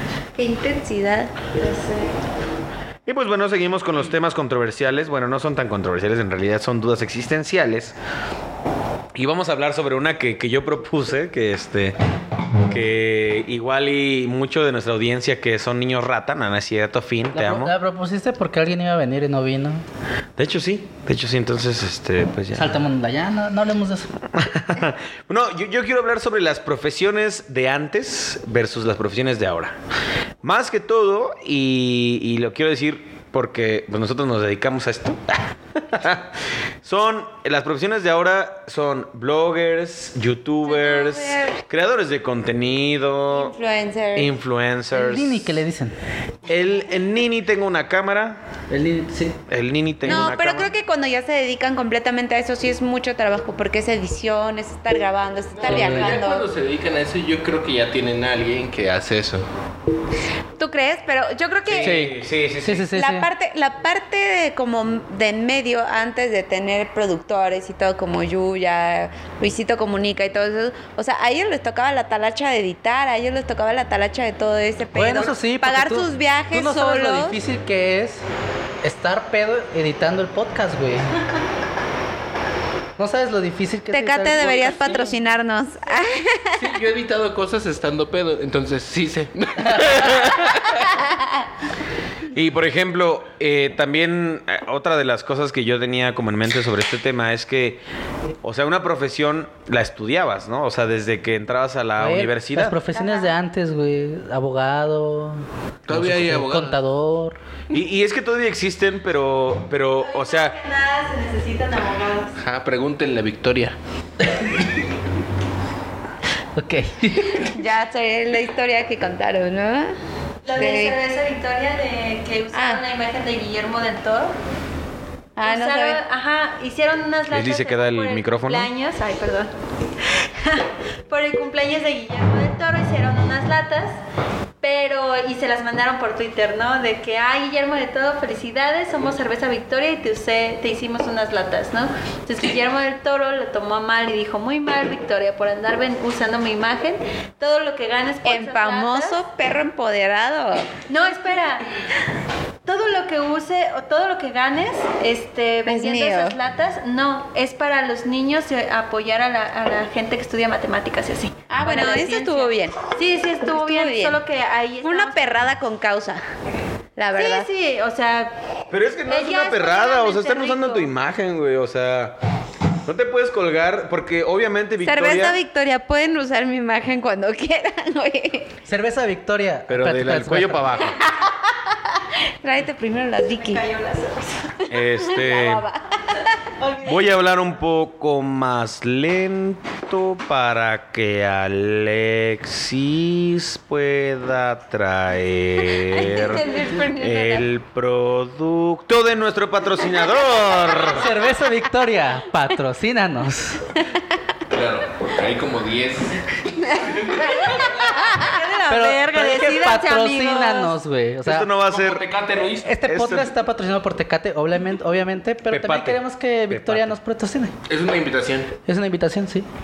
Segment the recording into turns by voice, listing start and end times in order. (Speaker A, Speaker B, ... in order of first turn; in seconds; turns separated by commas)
Speaker A: 0.4-2.1, Speaker B: 3.1-8.0, Speaker B: 9.1-12.0, Speaker B: 12.7-17.8, Speaker C: 17.3-19.8, Speaker B: 20.4-22.8, Speaker C: 22.5-24.1, Speaker B: 24.3-29.8, Speaker B: 30.4-36.3, Speaker B: 36.8-43.5, Speaker A: 40.7-41.6, Speaker A: 43.3-44.3, Speaker B: 44.1-45.6, Speaker C: 44.9-46.0, Speaker B: 46.5-48.4, Speaker C: 48.7-49.4, Speaker B: 49.5-50.7, Speaker A: 50.1-56.5, Speaker D: 55.5-59.5, Speaker C: 55.6-56.2, Speaker A: 60.6-62.0, Speaker B: 61.7-62.9, Speaker C: 62.6-63.3, Speaker A: 63.0-77.4, Speaker C: 75.0-78.2, Speaker C: 78.8-81.1, Speaker C: 83.0-85.1, Speaker A: 83.9-86.7, Speaker D: 86.6-90.6, Speaker B: 90.0-90.4, Speaker B: 92.3-97.8, Speaker B: 98.4-102.8, Speaker C: 102.0-107.4, Speaker E: 102.9-103.3, Speaker D: 105.9-106.8, Speaker B: 107.7-110.6, Speaker E: 110.0-112.3, Speaker D: 112.4-113.8, Speaker C: 116.6-117.5, Speaker A: 117.4-120.0, Speaker E: 120.5-124.3, Speaker A: 120.5-121.0, Speaker A: 122.5-122.8, Speaker A: 125.4-126.0, Speaker E: 125.4-129.5, Speaker B: 127.3-128.7, Speaker E: 130.1-134.0, Speaker E: 134.6-149.2, Speaker A: 148.2-150.7, Speaker E: 150.9-151.7, Speaker E: 152.7-165.2, Speaker A: 155.7-156.4, Speaker A: 161.5-162.8, Speaker A: 163.4-164.2, Speaker A: 164.8-166.2, Speaker A: 167.0-167.5, Speaker E: 167.2-168.3, Speaker B: 168.7-172.2, Speaker E: 169.1-170.9, Speaker B: 172.9-175.4, Speaker A: 174.8-178.5, Speaker C: 178.7-180.7, Speaker B: 179.7-181.0, Speaker A: 180.9-181.4, Speaker A: 182.4-183.6, Speaker E: 183.3-184.5, Speaker A: 184.6-185.8, Speaker B: 184.7-185.7, Speaker E: 186.6-186.9, Speaker B: 186.8-201.1, Speaker A: 195.7-197.5, Speaker C: 200.9-203.7, Speaker D: 204.5-208.0, Speaker A: 206.7-207.5, Speaker E: 207.8-210.8, Speaker C: 208.7-211.5, Speaker B: 211.2-212.1, Speaker D: 211.6-212.8, Speaker C: 212.6-217.6, Speaker B: 212.8-213.3, Speaker B: 215.5-217.0, Speaker D: 217.7-218.6, Speaker C: 218.7-219.5